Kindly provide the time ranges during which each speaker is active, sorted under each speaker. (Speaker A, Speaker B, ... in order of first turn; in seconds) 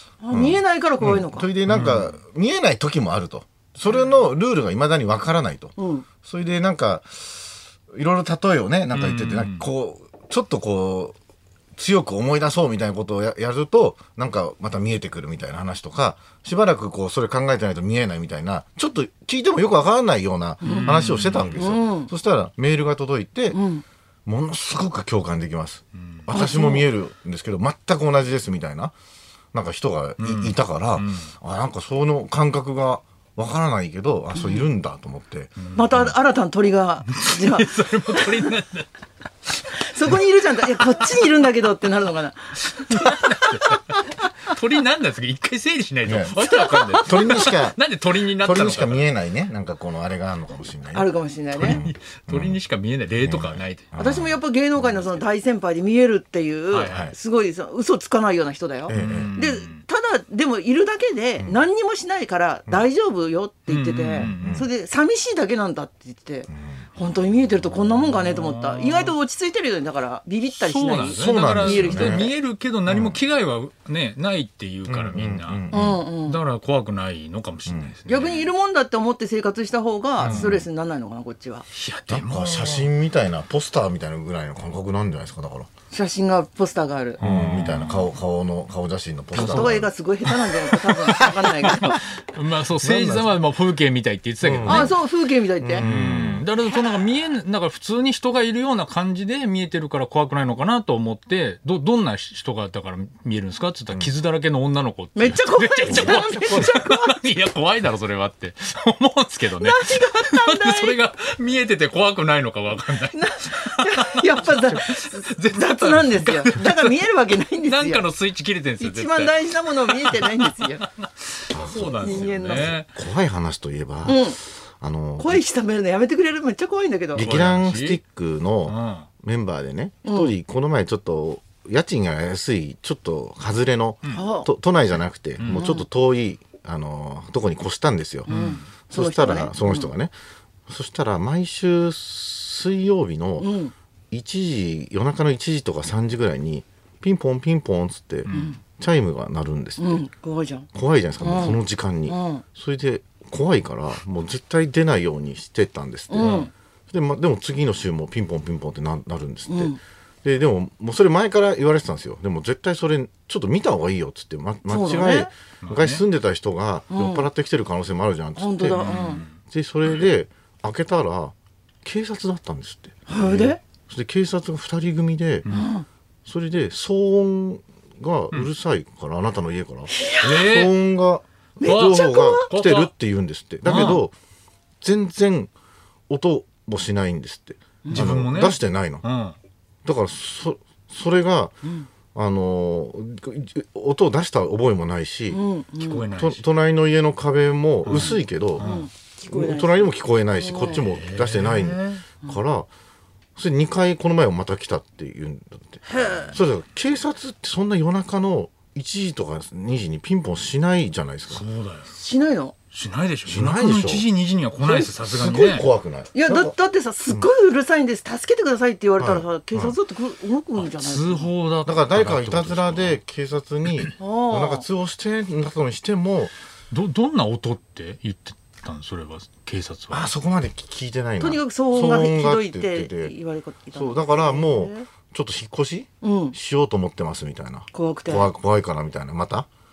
Speaker A: 0.2-1.5, 5.8-6.0, 20.6-21.0, 21.5-22.1, 23.5-23.8, 26.3-26.9, 34.3-34.7, 35.7-38.5, 39.7-44.0, 46.4-47.4, 50.9-51.8, 53.9-72.3, 75.7-76.4, 78.0-81.6, 85.9-87.2, 89.3-92.0, 94.6-95.9, 105.1-107.2, 109.6-111.0, 113.1-118.1, 118.8-120.9, 121.7-122.7, 124.0-124.4, 125.2-127.3, 130.0-130.3, 134.1-134.5, 135.5-135.8, 138.3-139.9, 143.4-143.7, 148.3-148.6, 149.8-150.7, 151.2-152.4, 156.1-156.5, 159.5-159.8, 164.7-165.3, 166.9-167.3, 168.4-169.2, 173.1-173.6, 175.5-175.8, 180.0-180.4, 181.6-182.5, 187.8-188.1, 191.6-191.9, 195.3-196.1, 197.9-200.8, 205.8-206.3, 211.9-212.5, 216.1-221.3, 224.0-224.7, 231.2-234.9, 236.0-236.4, 237.7-238.3
Speaker B: 0.3-11.1, 11.8-23.6, 24.2-28.9, 29.5-35.6, 46.0-46.4, 47.0-52.6, 53.2-54.8, 56.9-57.1, 58.9-59.3, 64.2-64.7, 66.5-66.8, 71.1-72.3, 72.9-73.2, 74.8-76.0, 77.7-78.0, 80.2-80.6, 82.1-85.7, 87.2-89.9, 92.8-93.3, 94.4-94.9, 95.6-96.5, 105.8-106.7, 121.5-125.4, 127.1-138.3, 138.9-140.1, 140.7-143.5, 144.1-149.9, 150.7-175.5, 176.2-184.1, 184.8-185.5, 186.1-189.0, 189.8-191.5, 192.1-195.4, 196.1-198.6, 199.3-202.7, 203.3-211.4, 213.2-214.1, 214.6-216.5, 219.0-219.8, 221.6-226.3, 229.9-233.1, 233.7-239.5
Speaker C: 1.7-2.1, 8.9-9.7, 20.6-21.6, 30.2-31.3, 35.6-36.1, 37.1-38.9, 40.8-41.0, 42.6-49.1, 51.5-54.0, 56.7-57.1, 58.9-59.8, 63.7-64.7, 67.6-69.1, 70.5-78.5, 80.2-80.7, 81.7-82.9, 87.2-88.1, 89.4-95.0, 95.7-117.0, 117.6-122.9, 127.2-128.0, 128.7-129.1, 135.4-135.7, 138.3-138.6, 148.2-148.5, 156.2-156.5, 165.6-166.0, 168.7-169.4, 175.4-175.7, 180.2-180.7, 181.6-182.9, 183.6-184.1, 187.9-189.3, 195.8-196.4, 197.8-198.9, 200.7-202.1, 211.3-211.9, 212.7-215.7, 220.6-223.0, 226.7-230.1